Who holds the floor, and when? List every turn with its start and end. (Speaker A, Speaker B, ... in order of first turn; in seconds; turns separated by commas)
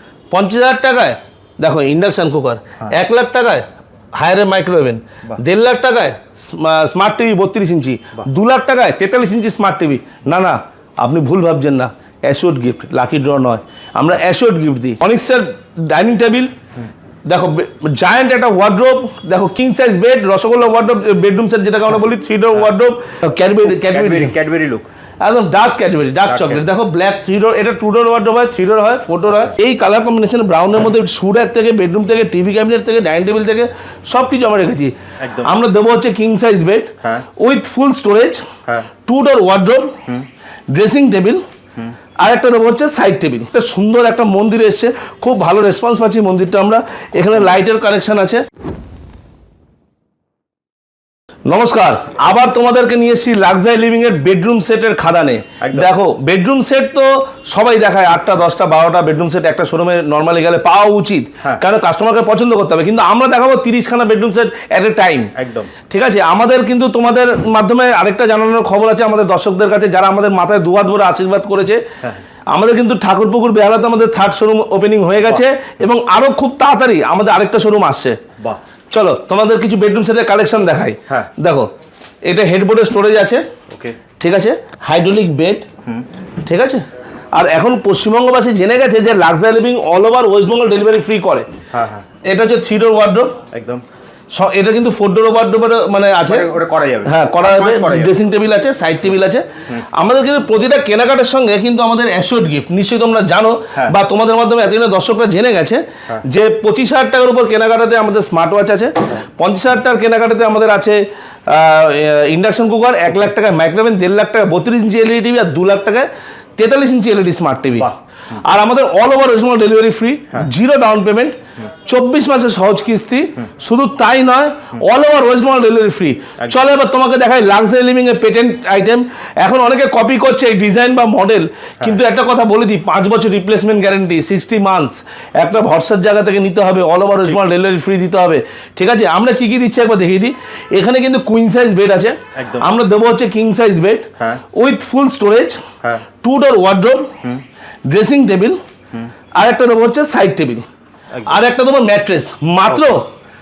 Speaker A: 0.3-16.5, Speaker A: 17.3-24.3, Speaker B: 23.8-24.9, Speaker A: 25.2-38.5, Speaker B: 26.3-26.7, Speaker B: 35.2-35.5, Speaker A: 39.1-40.0, Speaker A: 40.7-41.4, Speaker A: 42.2-48.5, Speaker A: 51.5-65.3, Speaker B: 55.6-55.9, Speaker B: 65.4-65.7, Speaker A: 65.9-71.8, Speaker A: 72.5-78.2, Speaker A: 78.9-81.7, Speaker A: 82.3-83.4, Speaker B: 83.7-84.0, Speaker A: 84.2-85.7, Speaker A: 86.4-91.5, Speaker B: 91.7-92.0, Speaker A: 92.2-93.4, Speaker B: 93.5-93.8, Speaker A: 94.3-96.5, Speaker B: 96.2-98.2, Speaker A: 97.0-145.6, Speaker B: 142.3-142.7, Speaker A: 146.2-147.2, Speaker A: 147.9-148.6, Speaker A: 149.3-150.7, Speaker A: 151.3-153.1